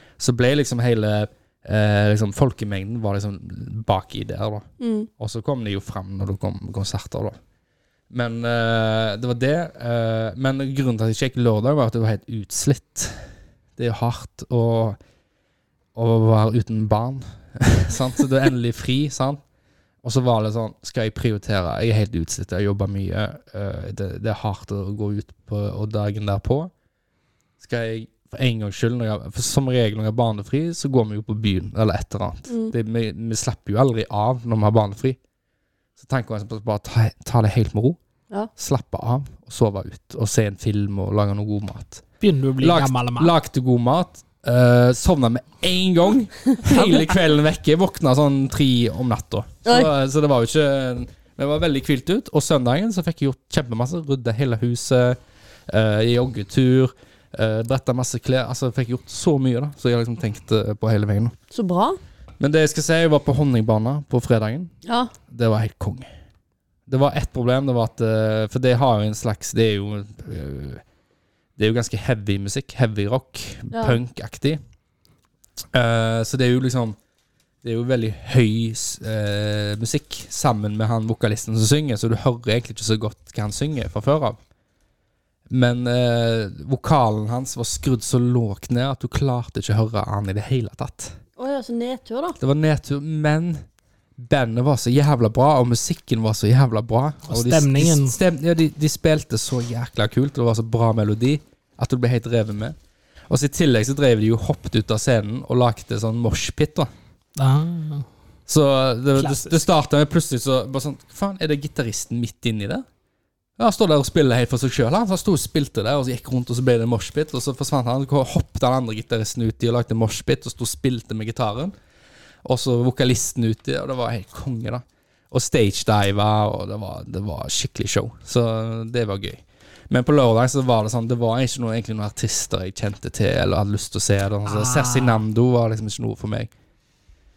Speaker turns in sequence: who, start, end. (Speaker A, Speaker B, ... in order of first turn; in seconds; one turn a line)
Speaker A: 0.2-4.7
Speaker B: 4.8-5.1
Speaker A: 5.2-7.3
Speaker A: 8.1-13.2
Speaker A: 13.8-15.0
Speaker A: 15.9-19.4
Speaker A: 20.0-26.7
Speaker A: 27.6-35.2
Speaker B: 32.5-32.7
Speaker A: 36.0-38.0
Speaker A: 38.5-42.0
Speaker C: 42.2-43.3
Speaker A: 42.6-61.3
Speaker B: 49.6-49.9
Speaker B: 61.5-62.0
Speaker A: 62.4-64.7
Speaker B: 64.8-65.1
Speaker A: 65.3-66.1
Speaker A: 66.9-70.8
Speaker A: 71.6-74.6
Speaker B: 73.7-74.0
Speaker A: 75.7-77.0
Speaker A: 77.6-84.4
Speaker A: 85.5-91.1
Speaker B: 91.4-92.4
Speaker A: 92.4-93.6
Speaker A: 94.2-102.7
Speaker C: 97.3-98.2
Speaker A: 103.3-106.9
Speaker C: 107.3-108.0
Speaker A: 108.5-112.8
Speaker C: 109.2-109.6
Speaker A: 113.6-121.7
Speaker A: 122.4-136.5
Speaker C: 134.4-135.2